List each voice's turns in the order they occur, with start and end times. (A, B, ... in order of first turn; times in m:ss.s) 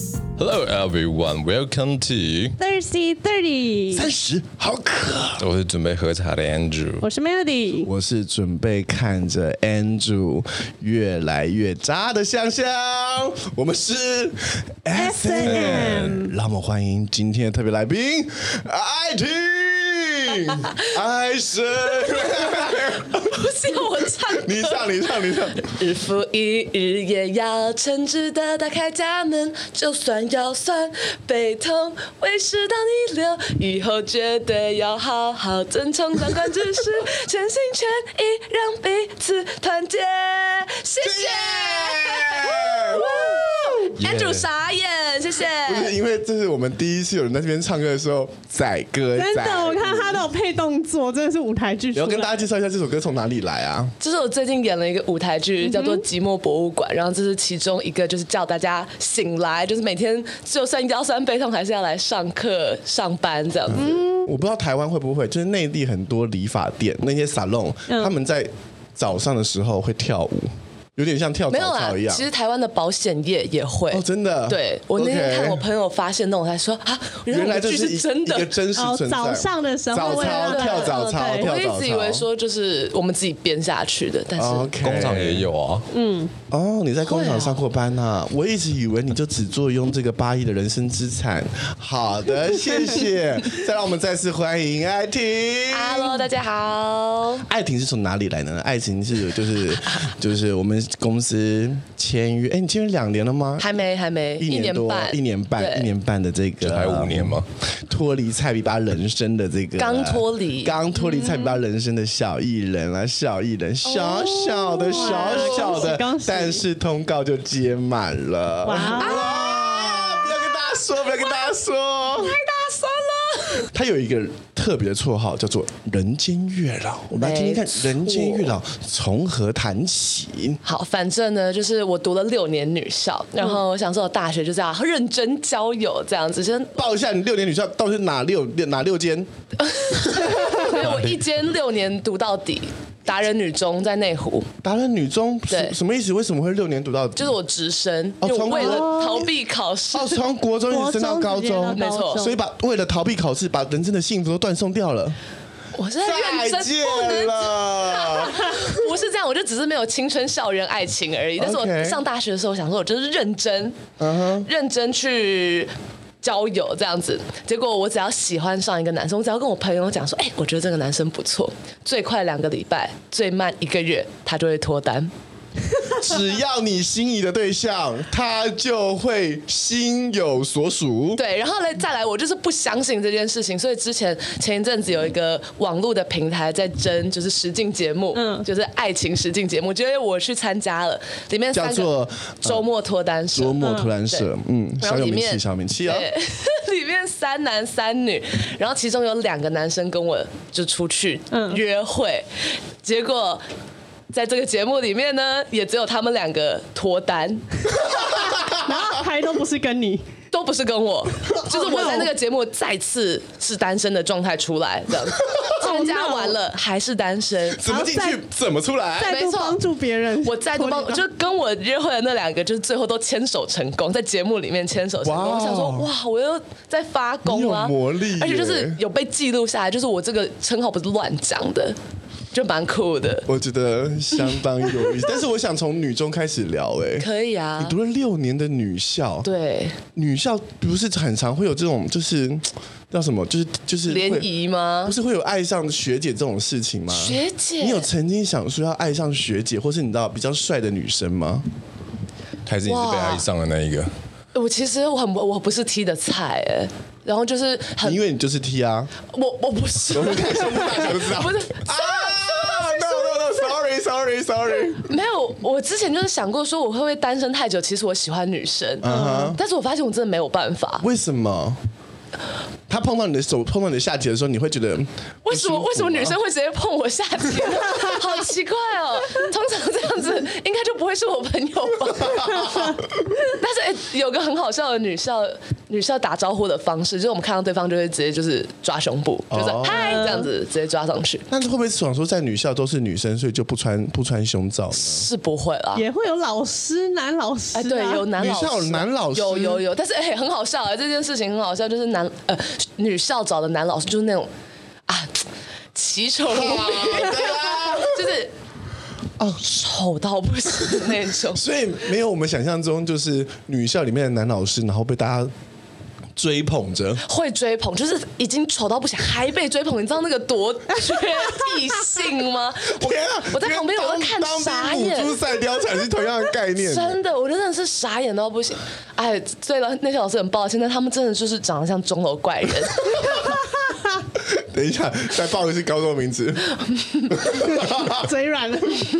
0:00.4-0:02.6 A
0:02.6-0:04.1 B
0:03.9-0:05.4 C
0:05.4-0:07.1 A
0:07.0-0:07.9 B
0:07.8-0:23.4 C
0:14.9-0:16.3 B
0:15.4-0:16.1 A
0:23.2-0:45.9 D
0:24.3-0:25.8 C
0:41.0-0:43.5 C
0:44.0-0:44.5 A
0:45.6-0:50.2 C
0:49.2-0:52.3 B
0:51.9-0:53.9 C
0:54.0-1:03.9 D
0:55.6-0:56.0 B
1:03.7-1:12.2 C
1:03.8-1:04.3 B
1:11.5-1:18.5 D
1:13.9-1:15.6 C
1:17.3-1:22.2 C
1:18.7-1:21.5 B
1:20.0-1:24.7 D
1:24.3-1:25.5 C
1:24.8-1:25.8 A
1:25.9-1:26.3 B
1:26.5-1:36.2 C
1:27.0-1:27.6 D
1:35.7-1:37.4 D
1:37.4-1:43.8 C
1:43.6-1:45.9 D
1:44.4-1:47.4 C
1:46.6-1:47.4 A
1:47.9-2:02.4 C
1:49.8-1:51.6 D
1:53.8-1:55.9 D
1:54.9-1:56.6 B
1:58.6-1:59.3 B
1:58.7-2:01.3 D
2:02.1-2:03.7 D
2:03.7-2:10.6 C
2:07.1-2:08.5 D
2:10.6-2:16.9 D
2:16.8-2:19.3 C
2:19.6-2:24.5 D
2:20.8-2:21.1 A
2:24.6-2:27.4 C
2:25.5-2:25.8 D
2:27.1-2:30.2 D
2:28.2-2:29.3 C
2:28.5-2:29.2 B
2:29.9-2:35.2 C
2:30.7-2:32.4 B
2:31.7-2:32.3 D
2:35.7-2:43.9 D
2:36.0-2:38.8 C
2:41.4-2:42.0 C
2:44.0-2:44.5 C
2:44.4-2:55.1 D
2:55.9-3:01.2 C
3:01.2-3:11.9 D
3:08.1-3:08.5 B
3:11.5-3:12.7 C
3:12.4-3:14.3 D
3:13.3-3:16.1 C
3:13.6-3:13.9 B
3:14.8-3:23.4 D
3:21.3-3:21.6 B
3:24.1-3:27.4 D
3:27.8-3:28.9 C
3:28.5-3:30.0 B
3:30.3-3:37.7 D
3:31.3-3:32.1 B
3:35.2-3:35.5 C
3:35.5-3:36.4 B
3:37.5-3:39.2 C
3:37.6-3:38.2 B
3:39.0-3:41.0 B
3:39.0-3:39.6 D
3:40.2-3:51.8 D
3:45.0-3:45.9 C
3:47.2-3:48.8 C
3:52.3-3:53.3 D
3:53.3-3:57.1 C
3:57.0-3:57.7 D
3:57.6-3:59.3 C
3:59.2-3:59.8 D
3:59.9-4:04.3 C
4:03.9-4:04.9 D
4:04.8-4:11.4 C
4:06.9-4:07.9 D
4:12.4-4:13.9 A
4:12.6-4:13.2 D
4:14.3-4:18.0 D
4:17.8-4:18.9 C
4:19.1-4:23.3 D
4:19.9-4:24.9 C
4:24.8-4:30.8 D
4:28.8-4:29.4 C
4:28.8-4:29.4 B
4:30.8-4:31.6 C
4:32.7-4:36.2 C
4:35.2-4:42.6 D
4:41.8-4:42.8 C
4:42.4-4:42.8 B
4:43.2-4:51.2 D
4:49.3-4:50.1 C
4:49.6-4:50.3 B
4:51.3-4:55.1 C
4:54.8-4:55.8 D
4:55.7-4:58.1 B
4:57.5-5:04.3 D
4:58.1-4:59.6 C
5:04.9-5:08.3 D
5:06.2-5:08.1 C
5:09.4-5:11.4 D
5:11.3-5:15.3 C
5:16.2-5:17.0 C
5:17.0-5:25.2 D
5:22.6-5:27.0 C
5:26.6-5:33.1 D
5:33.0-5:33.4 B
5:34.2-5:36.5 C
5:36.7-5:37.2 D
5:37.1-5:38.1 C
5:37.8-5:38.9 B